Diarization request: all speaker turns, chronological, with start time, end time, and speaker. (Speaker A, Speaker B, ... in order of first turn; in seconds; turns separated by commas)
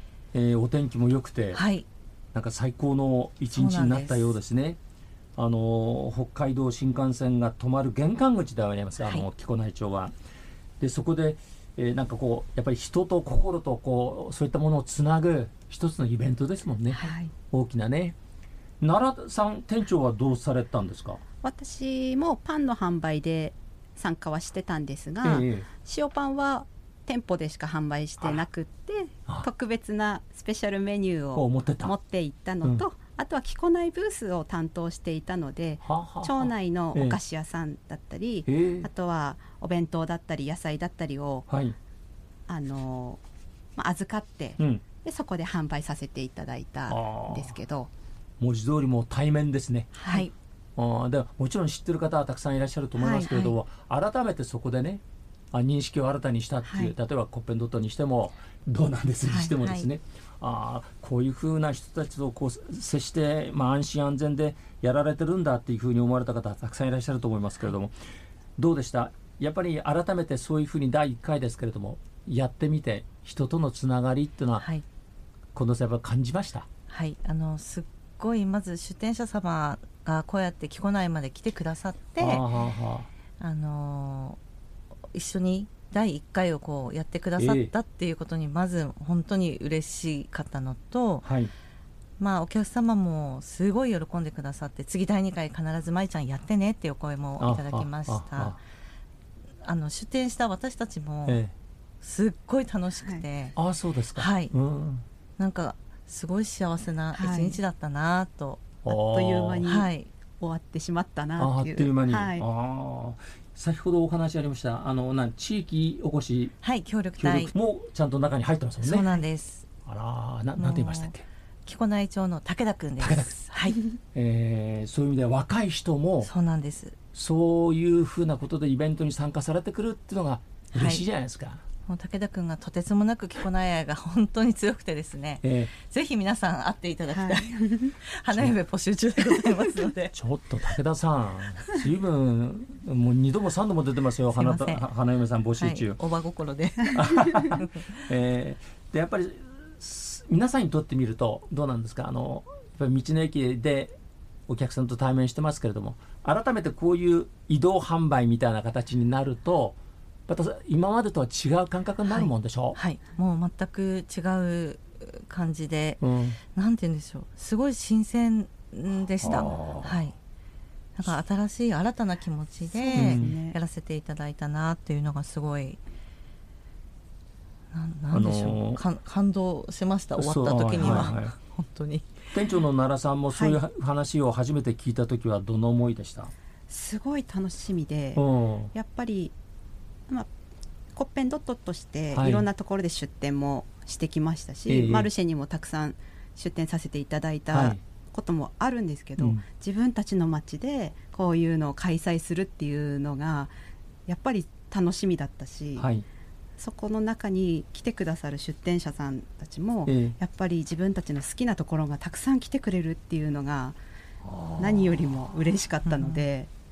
Speaker A: 0.3-1.6, Speaker B: 1.5-1.9, Speaker A: 2.3-4.8, Speaker B: 3.5-4.4, Speaker A: 5.4-10.1, Speaker B: 9.0-9.3, Speaker A: 10.8-18.2, Speaker C: 16.9-17.3, Speaker A: 18.8-21.2, Speaker C: 21.4-41.5, Speaker A: 25.2-25.7, Speaker A: 28.2-28.4, Speaker A: 31.3-31.9, Speaker A: 35.8-37.2, Speaker A: 38.5-38.9, Speaker A: 41.5-41.8, Speaker C: 42.5-43.2, Speaker C: 43.8-47.9, Speaker A: 44.6-44.9, Speaker A: 46.9-47.6, Speaker A: 48.4-50.0, Speaker C: 50.0-50.3, Speaker B: 50.1-50.3, Speaker A: 50.8-55.0, Speaker C: 53.0-53.5, Speaker A: 55.5-67.9, Speaker C: 56.6-57.0, Speaker B: 59.3-59.9, Speaker A: 68.6-74.7, Speaker A: 75.5-76.7, Speaker B: 76.9-82.5, Speaker A: 82.2-83.1, Speaker B: 83.4-84.4, Speaker B: 85.1-91.3, Speaker A: 87.4-87.7, Speaker A: 91.2-91.5, Speaker B: 92.2-98.6, Speaker A: 97.4-98.6, Speaker B: 99.6-101.4, Speaker A: 101.3-101.5, Speaker B: 102.0-103.6, Speaker A: 103.6-105.0, Speaker B: 104.2-104.5, Speaker B: 105.4-108.7, Speaker C: 107.1-107.6, Speaker A: 108.8-109.7, Speaker C: 108.9-112.5, Speaker B: 109.7-110.1, Speaker A: 111.4-116.5, Speaker B: 116.6-117.5, Speaker A: 117.2-119.2, Speaker B: 118.8-119.7, Speaker A: 119.8-121.2, Speaker B: 120.6-121.2, Speaker B: 121.7-123.8, Speaker A: 123.0-123.4, Speaker A: 124.1-126.3, Speaker B: 126.2-127.0, Speaker A: 127.2-131.6, Speaker B: 130.7-131.1, Speaker B: 131.9-140.1, Speaker A: 135.4-135.7, Speaker C: 137.1-138.0, Speaker A: 140.1-146.0, Speaker B: 144.3-144.9, Speaker B: 145.6-148.0, Speaker A: 146.9-153.9, Speaker A: 154.5-162.8, Speaker B: 162.1-166.0, Speaker A: 166.0-166.4, Speaker B: 166.5-170.2, Speaker A: 169.2-170.1, Speaker B: 171.0-175.8, Speaker C: 172.7-173.6, Speaker A: 172.9-173.4, Speaker B: 177.7-182.2, Speaker A: 178.1-178.8, Speaker A: 180.2-181.3, Speaker C: 180.8-181.1, Speaker A: 182.3-186.3, Speaker C: 183.3-183.6, Speaker C: 186.7-189.3, Speaker A: 188.2-188.7, Speaker C: 191.0-203.5, Speaker A: 192.1-192.5, Speaker A: 194.7-195.1, Speaker A: 197.5-197.8, Speaker A: 199.2-199.4, Speaker C: 204.1-205.9, Speaker A: 205.8-206.1, Speaker C: 206.6-213.8, Speaker A: 209.9-210.2, Speaker A: 214.2-214.9, Speaker C: 214.6-216.5, Speaker B: 215.8-216.3